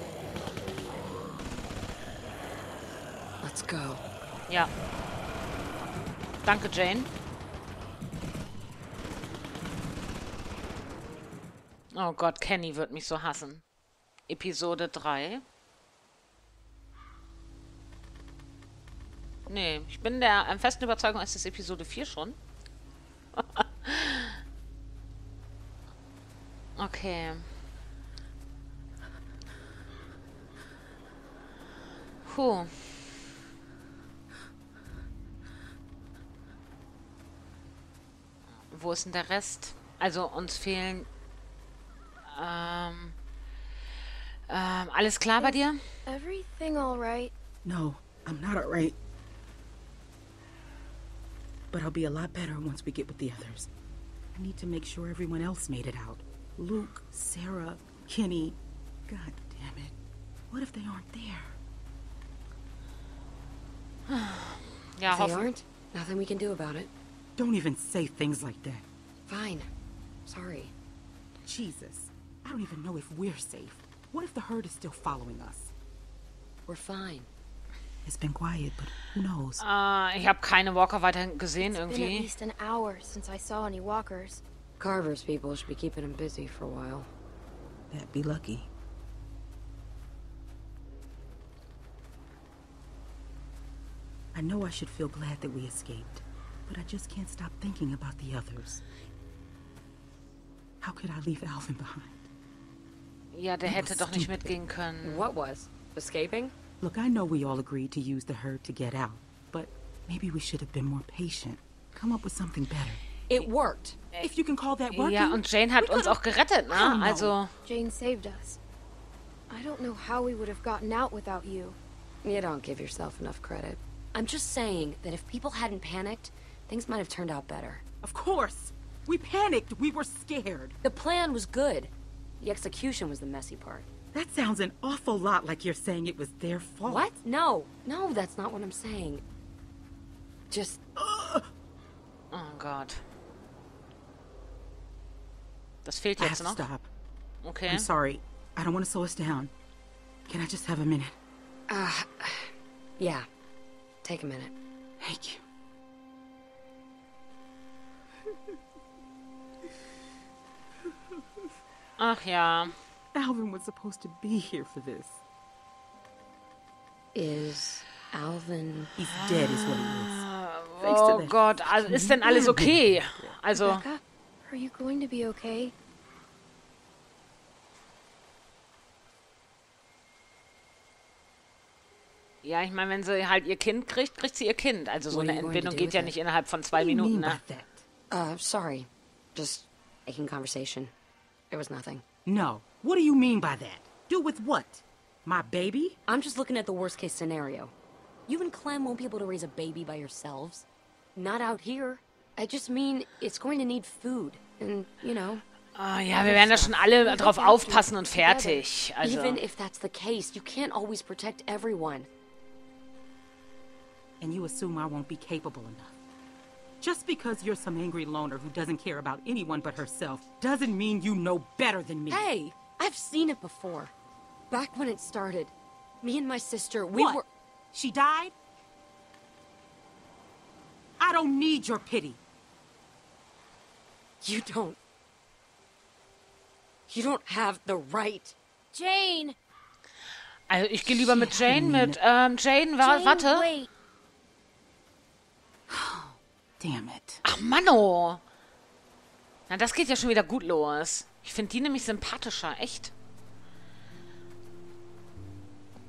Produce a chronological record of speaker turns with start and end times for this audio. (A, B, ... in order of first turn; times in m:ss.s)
0:03.4-0:04.0 A
0:06.4-0:07.1 B
0:11.9-0:13.6 B
0:14.3-0:15.4 B
0:19.5-0:22.4 B
0:23.4-0:24.4 B
0:26.8-0:27.5 B
0:32.2-0:33.2 B
0:38.7-0:41.1 B
0:42.3-0:43.2 B
0:44.5-0:45.8 B
0:45.4-0:47.3 C
0:47.6-0:49.0 D
0:51.7-0:53.7 D
0:54.4-1:00.0 D
1:00.5-1:01.6 D
1:04.1-1:05.5 B
1:05.1-1:06.9 A
1:07.4-1:08.8 D
1:09.3-1:09.7 A
1:10.3-1:10.7 A
1:11.4-1:15.7 D
1:16.7-1:17.3 A
1:18.1-1:19.6 D
1:19.6-1:22.3 B
1:21.6-1:24.4 C
1:24.8-1:27.1 A
1:27.9-1:28.7 D
1:34.4-1:38.8 D
1:40.8-1:42.3 D
1:43.3-1:45.3 B
1:43.6-1:44.6 D
1:45.0-1:46.5 A
1:46.8-1:53.0 D
1:53.3-1:54.0 A
1:54.2-1:57.4 D
1:54.9-1:57.5 B
1:57.7-1:58.6 C
1:59.5-2:01.8 C
2:02.2-2:07.8 A
2:08.0-2:10.8 D
2:10.8-2:13.9 A
2:14.1-2:17.1 D
2:16.8-2:19.2 A
2:20.5-2:20.8 A
2:21.0-2:21.5 D
2:22.3-2:23.0 B
2:25.8-2:26.6 B
2:26.2-2:26.9 D
2:27.4-2:27.9 B
2:27.7-2:29.5 D
2:30.3-2:31.2 D
2:31.7-2:33.3 A
2:34.0-2:34.5 A
2:35.0-2:35.4 D
2:42.0-2:42.7 B
2:43.1-2:45.2 D
2:47.1-2:48.9 A
2:49.0-2:50.3 D
2:49.2-2:53.8 B
2:50.8-2:53.4 D
2:53.5-2:55.7 C
3:02.4-3:07.4 B
3:05.1-3:06.1 A
3:06.7-3:07.8 D
3:08.1-3:10.9 A
3:11.5-3:12.0 A
3:12.3-3:16.0 D
3:16.1-3:17.7 A
3:18.3-3:25.4 A
3:25.8-3:29.4 B
3:26.2-3:26.8 A
3:27.0-3:28.6 C
3:29.0-3:32.1 A
3:34.2-3:36.0 D
3:36.8-3:42.3 D
3:42.1-3:43.9 A
3:44.5-3:47.3 A
3:47.0-3:48.4 D
3:51.0-3:52.2 D
3:54.2-3:54.8 A
3:56.9-3:58.4 A
3:58.7-3:59.4 C
4:00.5-4:03.5 B
4:00.9-4:02.0 D
4:02.8-4:03.7 C
4:05.7-4:07.2 D
4:07.2-4:08.2 B
4:09.5-4:12.9 B